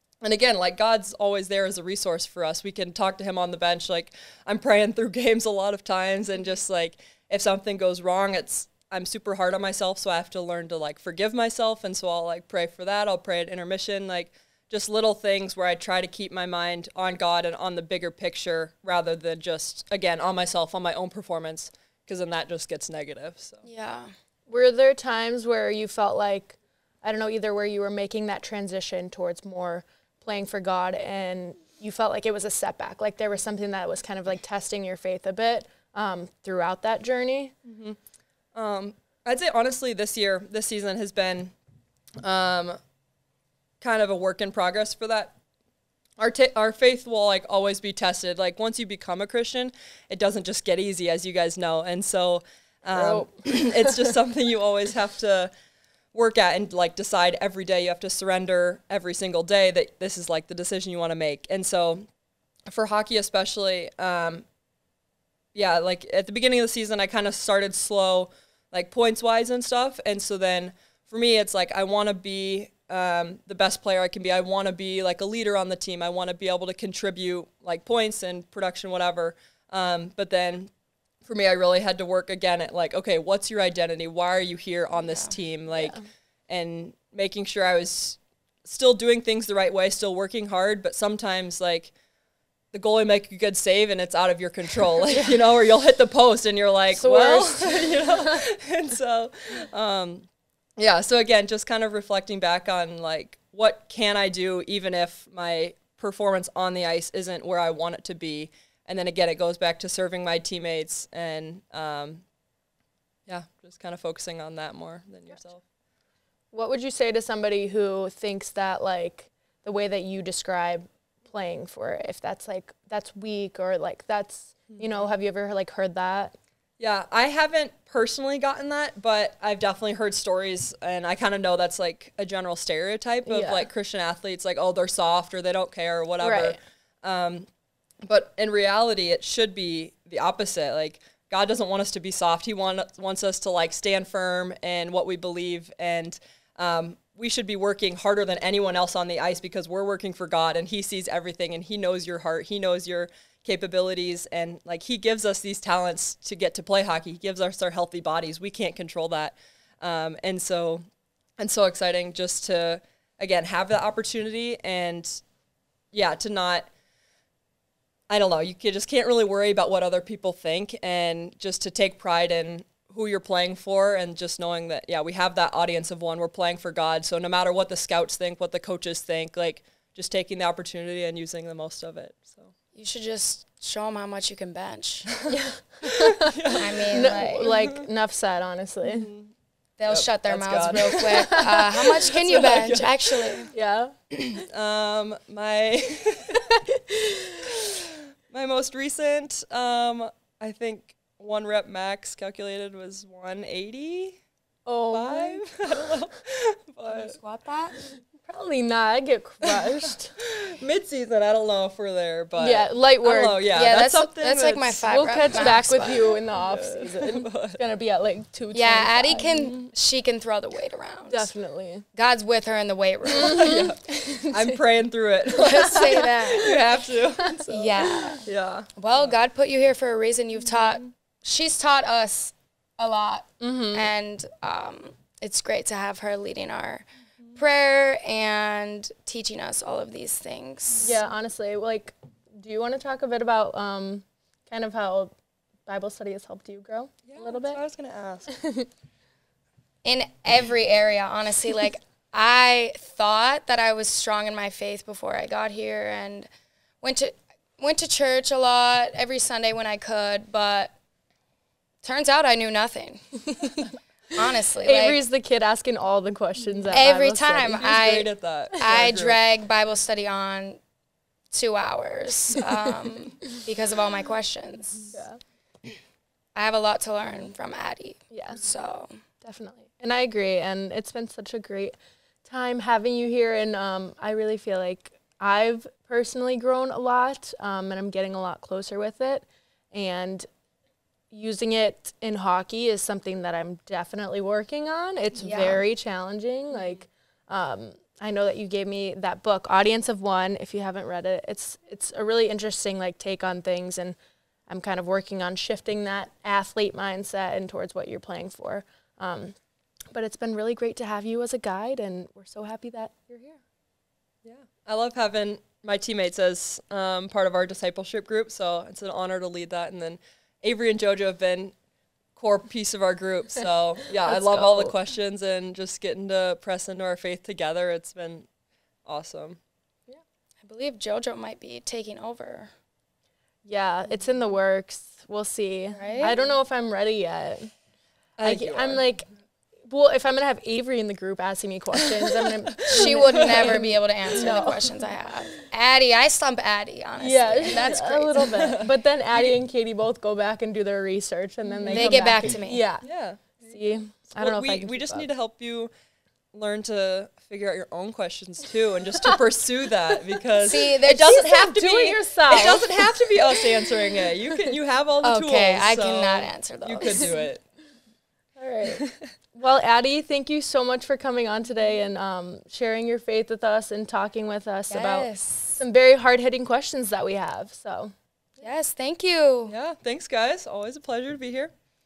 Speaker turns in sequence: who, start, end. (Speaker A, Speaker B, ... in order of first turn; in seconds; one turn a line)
Speaker A: 0.2-23.6
Speaker B: 23.6-24.1
Speaker C: 24.5-37.5
Speaker A: 37.7-38.0
Speaker A: 38.5-41.5
Speaker A: 42.2-42.8
Speaker A: 43.8-45.3
Speaker A: 46.2-55.5
Speaker C: 52.9-54.1
Speaker A: 56.1-62.0
Speaker A: 62.7-64.5
Speaker A: 65.5-80.7
Speaker A: 81.2-91.9
Speaker A: 92.7-100.3
Speaker B: 96.9-98.0
Speaker A: 100.8-112.2
Speaker A: 113.3-115.6
Speaker C: 116.5-126.4
Speaker A: 126.8-137.5
Speaker C: 133.3-133.7
Speaker C: 136.2-136.6
Speaker A: 138.1-160.8
Speaker A: 161.4-165.2
Speaker A: 165.9-166.7
Speaker A: 168.1-182.5
Speaker B: 182.8-185.1
Speaker A: 185.1-187.8
Speaker C: 185.3-186.4
Speaker B: 186.6-187.5
Speaker C: 186.9-189.1
Speaker A: 188.8-189.3
Speaker B: 189.8-193.5
Speaker A: 189.9-193.5
Speaker C: 191.2-191.6
Speaker C: 193.5-193.9
Speaker B: 194.1-194.4
Speaker A: 194.5-196.4
Speaker C: 196.3-197.2
Speaker A: 198.3-204.2
Speaker C: 204.7-205.4
Speaker A: 204.9-207.2
Speaker B: 206.9-207.8
Speaker C: 208.2-210.2
Speaker A: 209.4-214.9
Speaker C: 212.4-213.5
Speaker B: 213.5-216.2
Speaker C: 214.8-219.5
Speaker A: 216.3-217.6
Speaker B: 218.5-221.3
Speaker A: 219.4-219.7
Speaker C: 221.1-221.8
Speaker B: 221.9-223.6
Speaker C: 223.1-224.6
Speaker A: 223.2-228.7
Speaker B: 225.4-226.6
Speaker C: 227.2-228.2
Speaker B: 227.5-228.2
Speaker B: 228.8-240.9
Speaker C: 233.4-233.9
Speaker C: 240.8-245.1
Speaker C: 245.7-247.6
Speaker A: 247.1-248.3
Speaker C: 248.3-248.7
Speaker B: 249.8-256.3
Speaker B: 256.8-260.7
Speaker B: 261.8-263.3
Speaker C: 263.4-263.6
Speaker B: 264.1-265.0
Speaker C: 264.6-267.6
Speaker B: 266.7-270.6
Speaker A: 267.4-269.2
Speaker B: 271.3-274.9
Speaker C: 274.9-275.2
Speaker B: 276.4-278.9
Speaker C: 278.1-278.4
Speaker C: 279.2-290.3
Speaker C: 291.1-304.0
Speaker B: 295.2-295.6
Speaker C: 304.5-309.4
Speaker C: 309.9-313.4
Speaker A: 314.2-321.6
Speaker A: 322.2-328.3
Speaker C: 324.1-324.8
Speaker A: 328.9-329.4
Speaker B: 330.4-332.5
Speaker C: 333.4-337.5
Speaker B: 335.8-336.1
Speaker A: 338.2-338.8
Speaker C: 338.2-339.1
Speaker C: 339.7-344.7
Speaker B: 342.7-348.4
Speaker A: 342.7-343.6
Speaker C: 347.0-352.9
Speaker A: 348.2-348.7
Speaker A: 351.6-352.0
Speaker B: 351.7-352.6
Speaker A: 352.8-353.6
Speaker C: 353.4-355.1
Speaker A: 354.2-355.7
Speaker A: 356.3-367.4
Speaker B: 360.4-361.1
Speaker C: 360.8-363.3
Speaker B: 365.0-367.2
Speaker C: 366.8-367.1
Speaker C: 368.4-377.9
Speaker B: 374.7-375.6
Speaker B: 378.4-379.6
Speaker A: 379.5-381.5